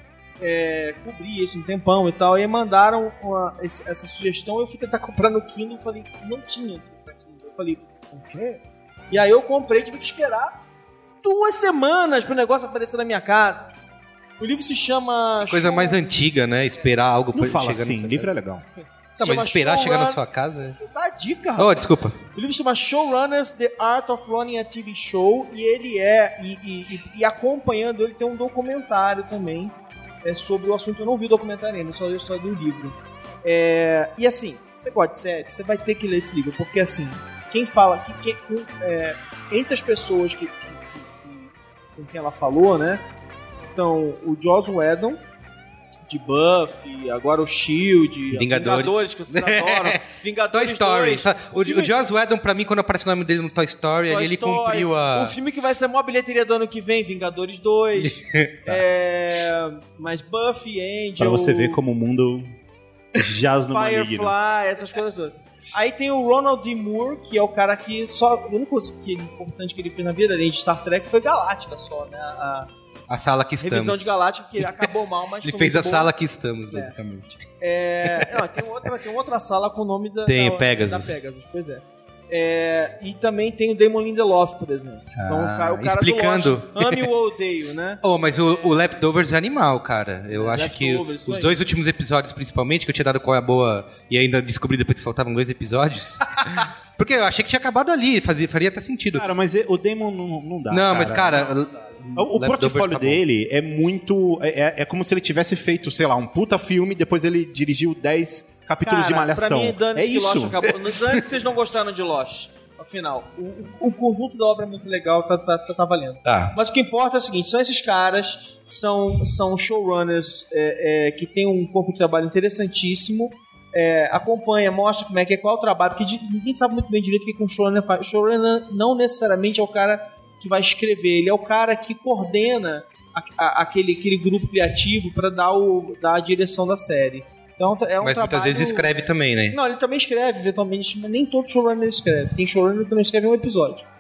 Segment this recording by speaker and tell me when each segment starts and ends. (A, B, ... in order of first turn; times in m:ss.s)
0:00.4-0:10.6 A
0:11.2-0:13.7 A
0:14.4-0:16.2 A
0:15.4-0:18.3 B
0:17.3-0:18.6 C
0:19.2-0:20.2 A
0:19.2-0:20.8 B
0:20.8-0:43.0 A
0:21.6-0:22.2 B
0:43.7-0:45.2 A
0:46.1-0:52.0 A
0:48.3-0:55.3 B
0:54.1-1:01.8 A
0:58.0-0:58.8 B
1:01.2-1:02.6 C
1:03.2-1:04.3 C
1:03.7-1:12.7 A
1:13.1-1:14.8 B
1:13.6-1:16.1 A
1:15.4-1:17.4 B
1:17.6-1:28.0 A
1:18.0-1:18.3 B
1:20.2-1:21.2 B
1:25.1-1:27.1 B
1:28.0-1:39.2 B
1:30.3-1:31.6 A
1:39.1-1:41.5 C
1:40.7-1:43.2 B
1:42.2-1:50.7 C
1:48.8-2:18.9 A
1:56.2-1:56.6 B
2:18.0-2:19.6 B
2:19.5-2:23.8 A